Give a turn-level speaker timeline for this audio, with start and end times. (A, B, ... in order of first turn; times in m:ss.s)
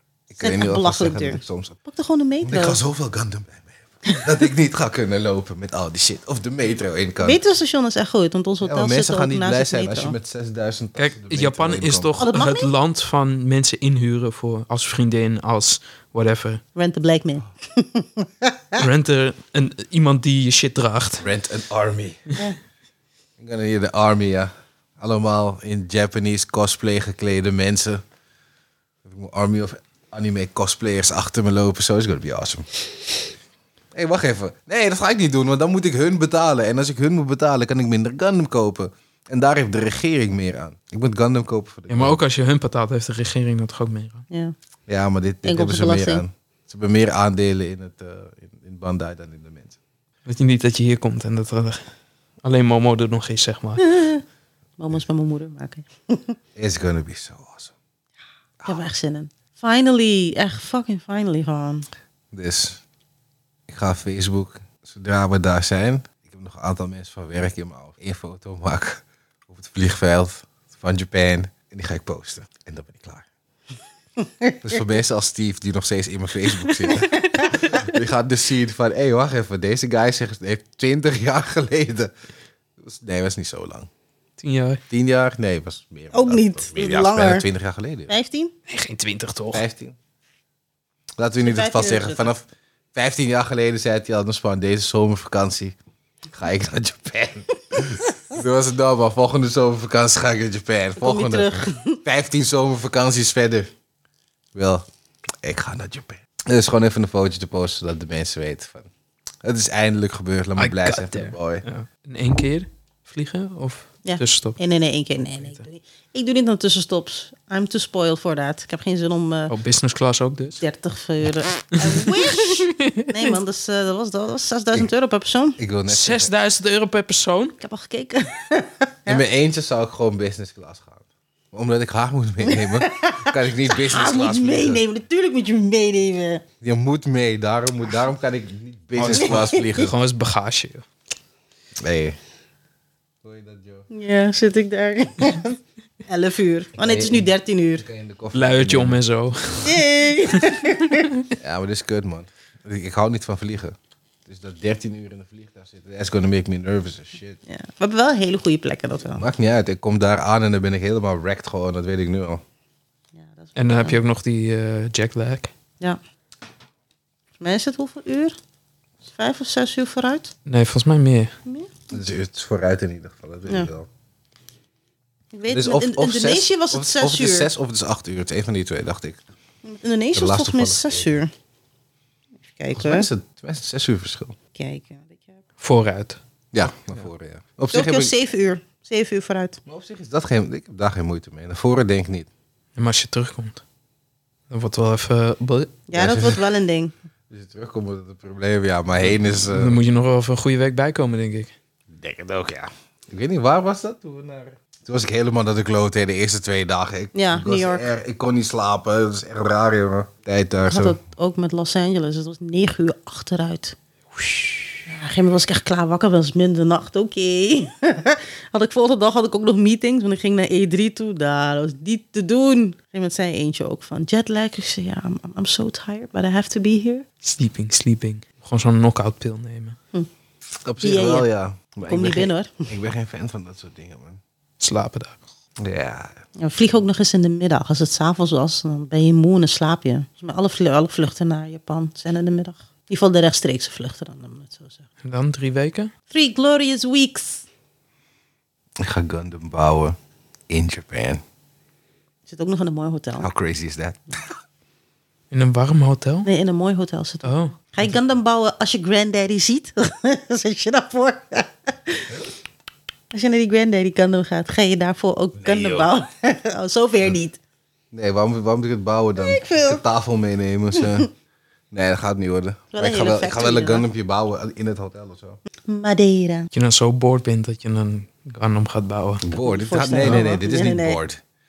0:00.3-0:01.8 A
0:00.4-0:02.8 B
0:02.4-0:07.4 A
0:07.2-0:10.2 B
0:08.6-0:12.1 A
0:11.0-0:16.6 C
0:12.2-0:12.7 B
0:16.7-0:18.8 B
0:18.8-0:21.2 C
0:21.2-0:22.2 A
0:23.4-0:28.0 A
0:29.0-0:32.7 A
0:33.9-0:42.2 A
0:41.9-0:44.2 C
0:44.9-0:49.8 A
0:45.4-0:46.2 B
0:50.2-0:51.8 C
0:52.4-0:53.9 C
0:53.8-0:54.2 B
0:54.8-0:56.4 B
0:56.6-0:57.7 A
0:58.6-1:01.9 B
1:02.3-1:02.8 A
1:03.7-1:13.3 A
1:14.6-1:22.1 A
1:17.1-1:17.5 B
1:22.8-1:23.9 A
1:24.4-1:24.8 C
1:24.9-1:28.1 A
1:26.1-1:27.4 B
1:28.1-1:28.5 B
1:28.7-1:29.6 C
1:29.5-1:30.0 A
1:31.2-1:35.7 A
1:31.4-1:32.3 B
1:36.3-1:43.7 A
1:41.0-1:42.0 B
1:44.5-1:44.8 A
1:45.4-1:48.9 A
1:49.4-1:51.6 A
1:50.6-1:54.6 C
1:54.0-1:59.5 B
1:59.5-2:00.6 C
2:00.6-2:05.6 B
2:01.8-2:03.4 C
2:05.6-2:06.3 A
2:05.9-2:07.6 C
2:07.6-2:09.2 B
2:09.1-2:14.8 A
2:12.4-2:16.4 B
2:16.6-2:19.9 A
2:19.0-2:20.8 C
2:19.1-2:19.7 B
2:21.8-2:22.2 A
2:23.2-2:23.8 A
2:23.9-2:27.8 B
2:26.8-2:29.0 A
2:28.3-2:31.2 C
2:29.6-2:31.1 B
2:31.4-2:37.4 A
2:37.5-2:39.2 B
2:39.2-2:42.4 A
2:43.2-2:44.0 B
2:43.6-2:45.5 C
2:47.4-2:48.4 B
2:49.1-2:50.3 B
2:50.4-2:51.3 C
2:51.4-2:51.7 B
2:51.9-2:53.9 A
2:55.3-2:57.5 B
2:55.5-2:59.2 A
2:59.6-3:01.3 B
3:00.1-3:01.2 A
3:02.5-3:03.1 B
3:02.7-3:04.4 A
3:04.5-3:05.4 B
3:05.6-3:06.2 C
3:06.5-3:08.1 A
3:07.7-3:09.6 B
3:09.6-3:12.3 A
3:12.8-3:13.6 C
3:14.5-3:15.8 C
3:15.9-3:16.9 B
3:15.9-3:16.4 A
3:17.3-3:19.8 A
3:19.4-3:21.5 C
3:21.9-3:31.0 A
3:27.1-3:27.9 B
3:30.7-3:33.8 B
3:34.7-3:47.0 B
3:47.2-3:49.8 C
3:50.6-3:54.2 A
3:50.8-3:51.3 B
3:51.9-3:52.7 B
3:54.6-3:55.2 C
3:55.6-3:56.2 A
3:56.4-4:04.8 B
4:05.0-4:05.9 C
4:06.1-4:07.4 B
4:08.8-4:10.0 A
4:10.5-4:11.2 A
4:12.3-4:13.3 B
4:13.2-4:14.4 A
4:15.3-4:16.3 C
4:16.2-4:22.1 B
4:17.2-4:17.6 C
4:23.1-4:27.4 B
4:25.4-4:25.9 A
4:27.9-4:31.1 A
4:29.2-4:29.8 B
4:31.7-4:35.4 A
4:32.7-4:33.8 B
4:35.7-4:36.5 B
4:36.5-4:39.2 C
4:39.2-4:41.2 A
4:39.4-4:41.0 B